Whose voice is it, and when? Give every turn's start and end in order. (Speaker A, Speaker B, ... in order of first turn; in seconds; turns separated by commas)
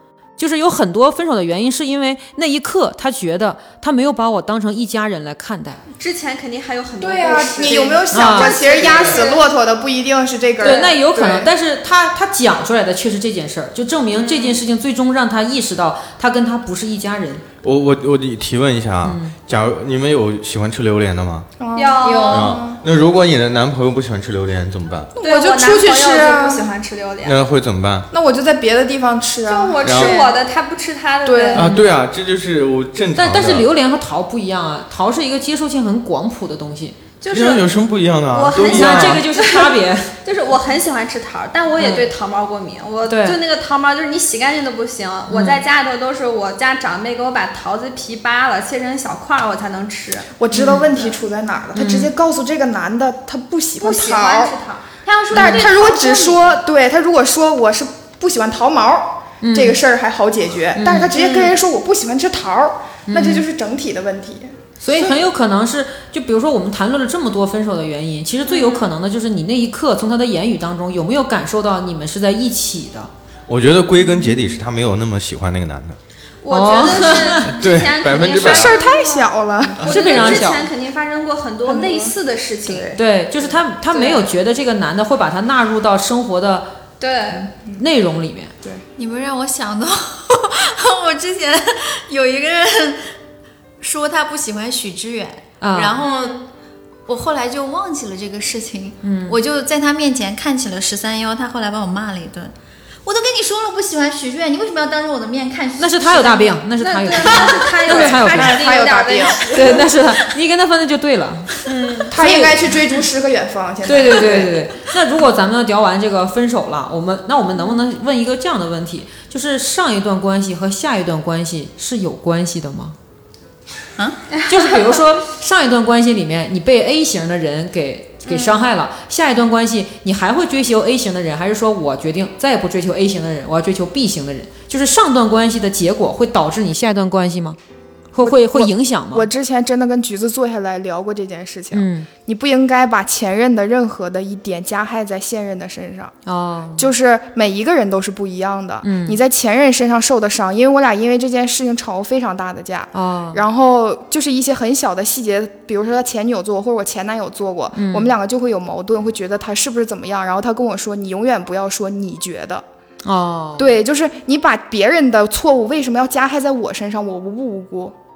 Speaker A: 0.4-5.8, Speaker B: 6.0-9.5, Speaker C: 7.0-11.5, Speaker A: 8.1-8.6, Speaker A: 10.6-17.4, Speaker B: 14.1-14.6, Speaker D: 17.6-21.5, Speaker A: 19.0-19.3, Speaker C: 21.6-22.8, Speaker B: 21.8-22.6, Speaker D: 22.2-25.1, Speaker C: 25.1-26.7, Speaker B: 25.2-27.4, Speaker D: 27.2-28.1, Speaker C: 28.1-30.2, Speaker B: 29.4-31.6, Speaker D: 29.8-30.2, Speaker C: 31.2-31.7, Speaker D: 31.5-33.7, Speaker A: 31.6-31.9, Speaker A: 33.1-37.0, Speaker B: 37.2-37.7, Speaker D: 37.3-39.2, Speaker B: 38.3-50.3, Speaker A: 38.7-40.1, Speaker A: 41.8-42.1, Speaker A: 43.0-43.4, Speaker A: 45.3-45.6, Speaker C: 50.4-54.5, Speaker A: 50.5-50.9, Speaker A: 51.7-52.1, Speaker B: 53.8-56.5, Speaker C: 55.3-65.2, Speaker A: 55.3-55.7, Speaker A: 59.4-59.8, Speaker A: 60.7-61.1, Speaker B: 61.1-61.5, Speaker A: 63.1-63.5, Speaker A: 64.8-73.1, Speaker B: 68.5-68.9, Speaker D: 73.5-76.0, Speaker B: 76.4-79.3, Speaker A: 76.5-77.5, Speaker D: 77.5-78.7, Speaker C: 78.3-79.8, Speaker B: 79.8-83.0, Speaker D: 79.8-80.4, Speaker A: 79.8-80.7, Speaker C: 81.6-82.9, Speaker A: 82.9-86.7, Speaker B: 83.9-84.3, Speaker B: 87.0-87.5, Speaker A: 87.8-88.5, Speaker E: 89.0-93.1, Speaker E: 93.8-96.5, Speaker A: 95.6-96.0, Speaker E: 97.1-102.5, Speaker A: 99.0-99.4, Speaker E: 103.0-106.5, Speaker A: 105.8-108.6, Speaker B: 106.7-109.9, Speaker C: 107.9-109.5, Speaker A: 109.5-112.7, Speaker B: 111.7-112.2, Speaker C: 112.1-114.6, Speaker A: 113.8-123.0, Speaker E: 124.0-124.2, Speaker A: 124.5-137.6, Speaker B: 128.3-128.7, Speaker A: 138.1-139.3, Speaker C: 138.2-146.1, Speaker A: 141.7-142.1, Speaker A: 146.2-146.9, Speaker C: 146.8-162.6, Speaker A: 148.8-149.2, Speaker A: 152.9-153.4, Speaker A: 157.7-158.1, Speaker A: 163.0-163.8, Speaker C: 163.6-167.9